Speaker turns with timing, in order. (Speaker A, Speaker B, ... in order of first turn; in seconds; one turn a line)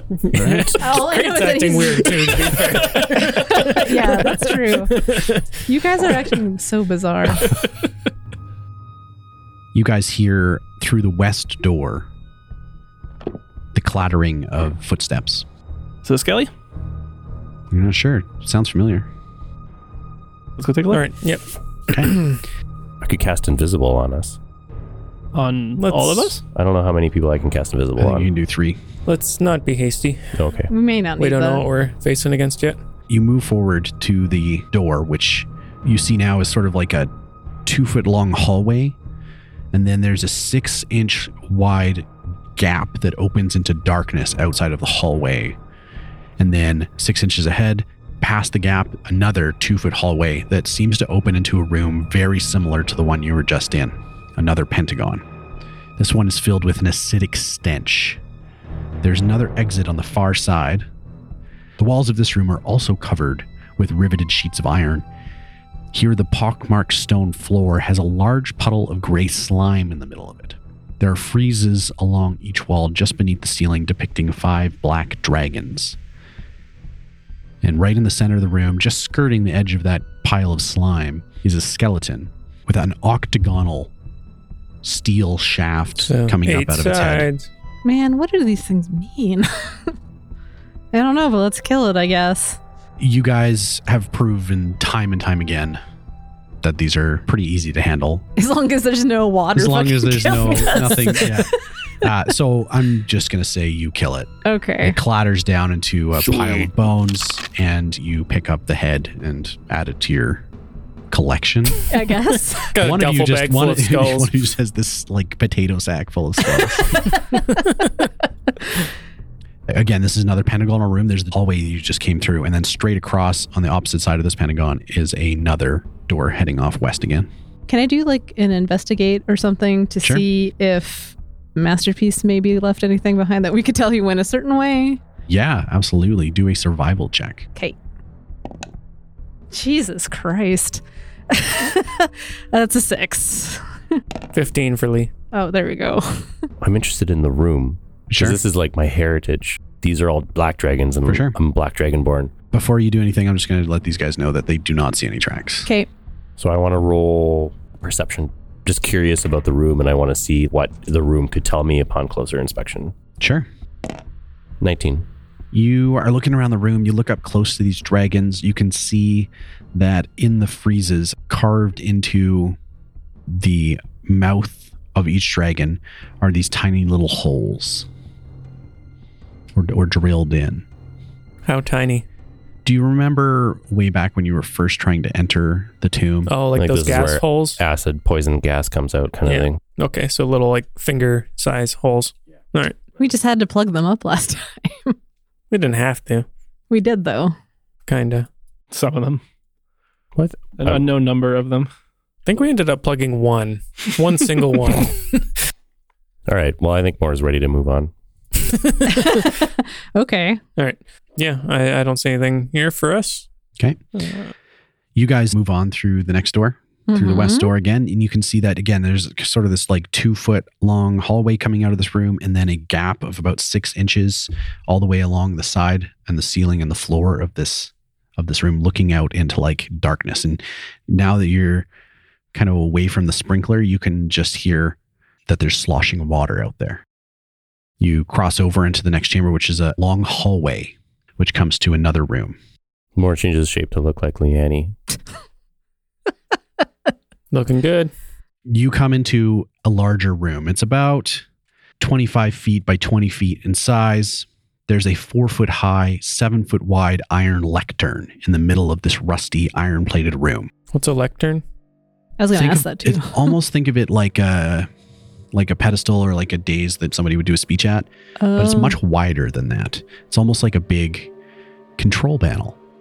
Speaker A: 0.1-6.3
Speaker B: 0.3-0.8
Speaker C: 0.8-5.1
Speaker C: 5.7-7.5
Speaker B: 9.7-12.1
Speaker B: 13.7-15.4
Speaker D: 16.0-16.5
Speaker B: 17.7-19.1
Speaker D: 20.6-21.1
Speaker A: 20.9-21.4
Speaker B: 21.9-22.1
Speaker A: 22.0-22.4
Speaker E: 23.0-24.4
Speaker D: 25.3-26.4
Speaker A: 25.8-26.4
Speaker E: 26.5-28.3
Speaker B: 28.0-28.8
Speaker A: 29.1-30.4
Speaker E: 30.4-30.7
Speaker C: 30.7-31.6
Speaker A: 31.2-32.8
Speaker B: 33.1-37.1
Speaker B: 37.6-39.0
Speaker B: 39.7-45.5
Speaker B: 46.4-55.2
Speaker B: 56.0-58.2
Speaker B: 59.0-60.9
Speaker B: 61.8-65.0
Speaker B: 65.9-76.0
Speaker B: 77.6-83.9
Speaker B: 84.8-87.3
Speaker A: 86.0-87.5
Speaker C: 87.8-89.9
Speaker C: 90.9-92.6
Speaker B: 93.0-95.8
Speaker B: 96.6-98.2
Speaker C: 98.4-101.5
Speaker B: 99.5-110.4
Speaker C: 104.4-105.0
Speaker E: 106.3-106.7
Speaker B: 111.1-111.9
Speaker C: 111.9-112.7
Speaker A: 112.7-114.3
Speaker B: 112.8-117.0
Speaker A: 117.3-117.9
Speaker B: 119.7-127.3
Speaker C: 127.7-135.0
Speaker B: 135.3-137.5
Speaker C: 139.5-144.0
Speaker A: 144.3-145.1
Speaker C: 145.3-146.5
Speaker E: 146.6-152.3
Speaker B: 148.1-148.4
Speaker B: 151.1-151.3
Speaker B: 152.5-155.7
Speaker E: 156.4-162.9
Speaker B: 163.2-163.4
Speaker E: 164.6-165.0
Speaker B: 165.5-172.6
Speaker B: 173.3-177.9
Speaker B: 179.5-180.7
Speaker A: 181.4-182.1
Speaker B: 182.6-186.3
Speaker A: 186.3-187.6
Speaker E: 186.5-189.6
Speaker A: 189.2-192.8
Speaker C: 193.0-194.9
Speaker A: 195.5-196.3
Speaker C: 196.7-197.3
Speaker A: 197.9-198.3
Speaker D: 198.7-199.2
Speaker E: 200.2-200.9
Speaker D: 200.6-201.7
Speaker A: 202.2-205.3
Speaker E: 206.3-207.9
Speaker A: 208.4-209.0
Speaker C: 208.9-210.4
Speaker A: 210.6-213.3
Speaker A: 213.9-214.3
Speaker B: 214.9-231.7
Speaker C: 216.9-217.5
Speaker B: 232.3-236.8
Speaker B: 237.8-242.3
Speaker E: 242.9-244.7
Speaker A: 247.3-247.9
Speaker B: 248.4-251.2
Speaker B: 251.8-260.5
Speaker A: 260.7-261.4
Speaker C: 262.2-263.3
Speaker B: 262.3-264.7
Speaker B: 265.3-271.1
Speaker C: 268.2-268.8
Speaker B: 271.8-272.6